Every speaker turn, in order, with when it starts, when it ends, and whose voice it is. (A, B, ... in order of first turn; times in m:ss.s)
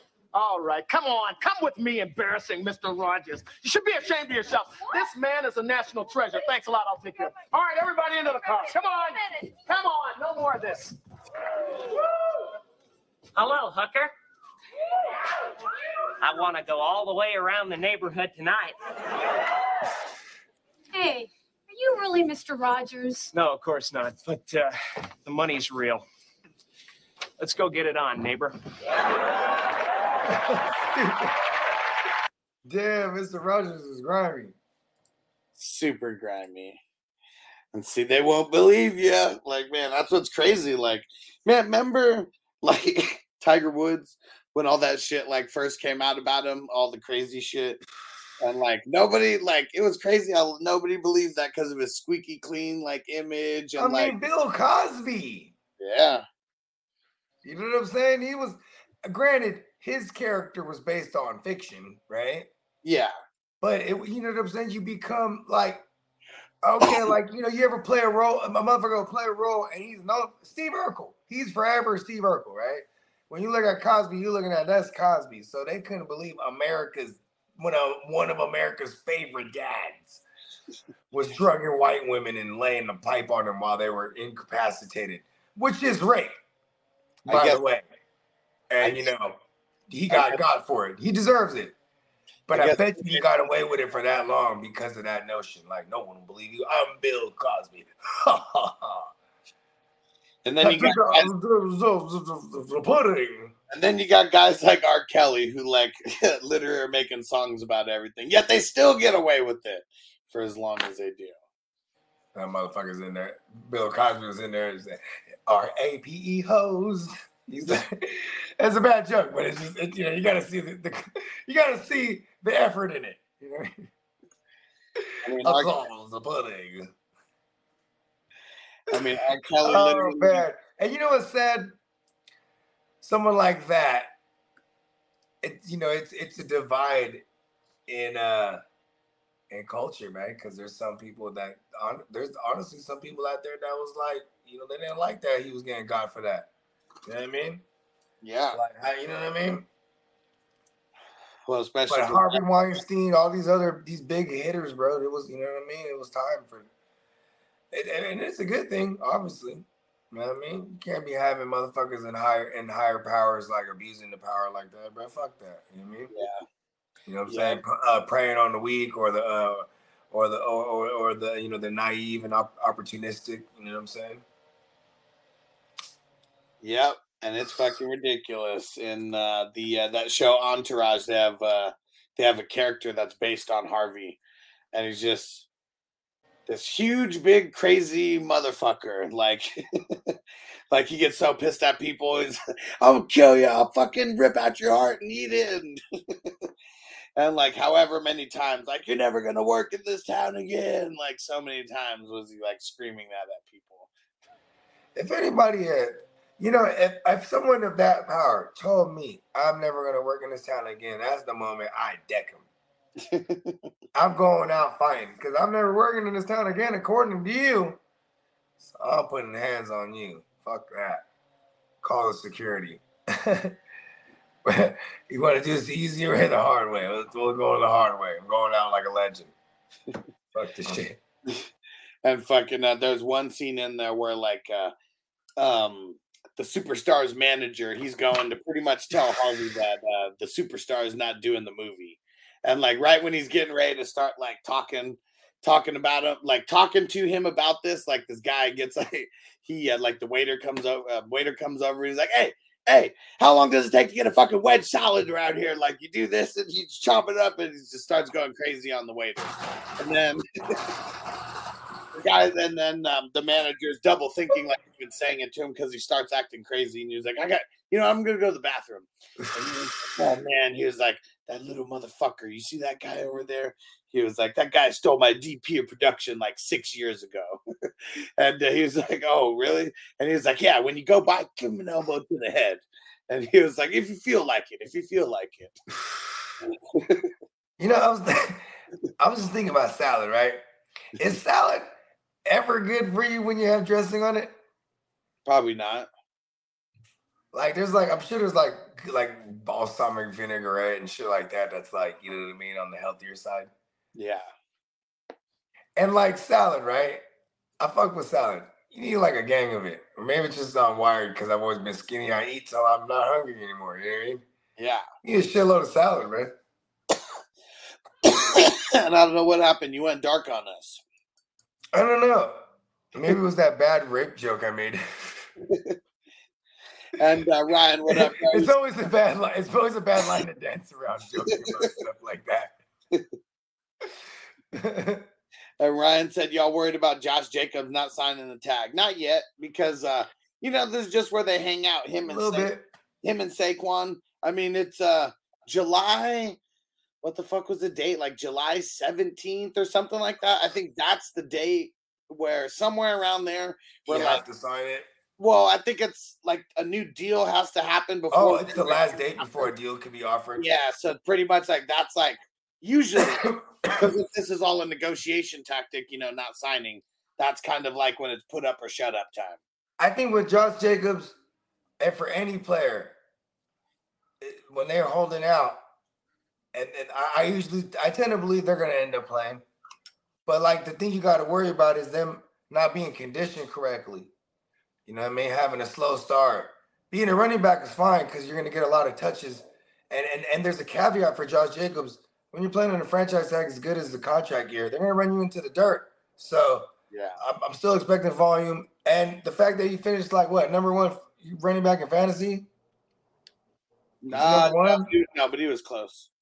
0:00.3-0:10.9 A
0:08.4-0:09.5 B
0:13.4-0:14.1 C
0:16.2-0:18.7 C
0:20.9-0:23.3 B
0:23.3-0:26.0 C
0:27.4-0:28.6 C
0:30.3-0:31.4 D
0:32.6-0:34.5 D
0:35.6-0:36.8 E
0:37.7-0:47.8 E
0:48.4-0:54.2 E
0:53.8-0:55.5 D
0:55.8-0:56.2 E
0:57.4-1:02.5 D
1:02.8-1:03.1 E
1:03.6-1:05.8 D
1:06.6-1:20.2 D
1:21.1-1:26.4 D
1:27.3-1:27.9 D
1:27.3-1:27.6 E
1:28.7-1:29.4 D
1:28.8-1:29.1 E
1:29.9-1:31.7 D
1:30.1-1:30.4 E
1:32.5-1:39.1 D
1:32.5-1:33.3 E
1:40.4-1:41.3 E
1:40.6-1:43.5 D
1:43.7-1:51.3 E
1:52.3-2:03.8 D
2:05.0-2:06.9 D
2:05.2-2:05.7 E
2:08.9-2:10.4 E
2:09.6-2:11.7 D
2:13.0-2:14.1 D
2:15.4-2:17.2 D
2:17.9-2:18.6 D
2:19.5-2:26.5 D
2:27.0-2:27.6 D
2:28.2-2:28.6 E
2:28.5-2:29.7 D
2:31.5-2:32.8 E
2:31.9-2:36.7 D
2:37.7-2:46.1 D
2:46.1-2:46.4 E
2:47.1-2:54.2 D
2:47.3-2:47.6 E
2:56.6-3:04.2 E
3:04.7-3:05.5 E
3:06.5-3:10.2 E
3:10.7-3:16.5 E
3:17.2-3:23.9 E
3:24.9-3:32.4 D
3:33.0-3:33.6 E
3:33.9-3:37.8 D
3:38.6-3:41.0 D
3:41.8-3:43.6 D
3:44.4-3:49.3 D
3:50.3-3:51.0 D
3:52.0-3:54.7 E
3:55.4-4:20.2 E
4:21.9-4:37.4 E
4:38.2-4:45.6 E
4:46.4-4:47.1 E
4:47.6-4:48.4 D
4:49.0-4:50.4 D
4:51.0-4:51.7 D
4:52.2-4:54.3 D
4:55.2-4:55.9 E
4:57.3-5:03.5 D
5:03.9-5:04.3 E
5:05.8-5:07.0 D
5:07.6-5:14.2 D
5:14.6-5:14.8 E
5:15.0-5:16.3 D
5:18.0-5:20.8 E
5:21.7-5:25.2 D
5:25.4-5:25.8 E
5:27.0-5:28.5 E
5:27.9-5:32.5 D
5:31.3-5:31.7 E
5:34.5-5:35.0 D
5:35.6-5:42.5 E
5:42.0-5:42.6 D
5:43.0-5:46.4 E
5:47.0-5:54.2 E
5:53.9-5:54.9 D
5:55.2-5:59.4 E
5:58.1-6:00.4 D
6:00.4-6:09.4 E
6:03.0-6:03.9 D
6:09.8-6:11.2 D
6:11.8-6:13.0 D
6:14.2-6:15.6 D
6:16.5-6:19.4 D
6:20.2-6:24.1 D
6:24.9-6:42.5 D
6:36.9-6:37.2 E
6:44.0-6:46.1 E
6:44.1-6:44.9 D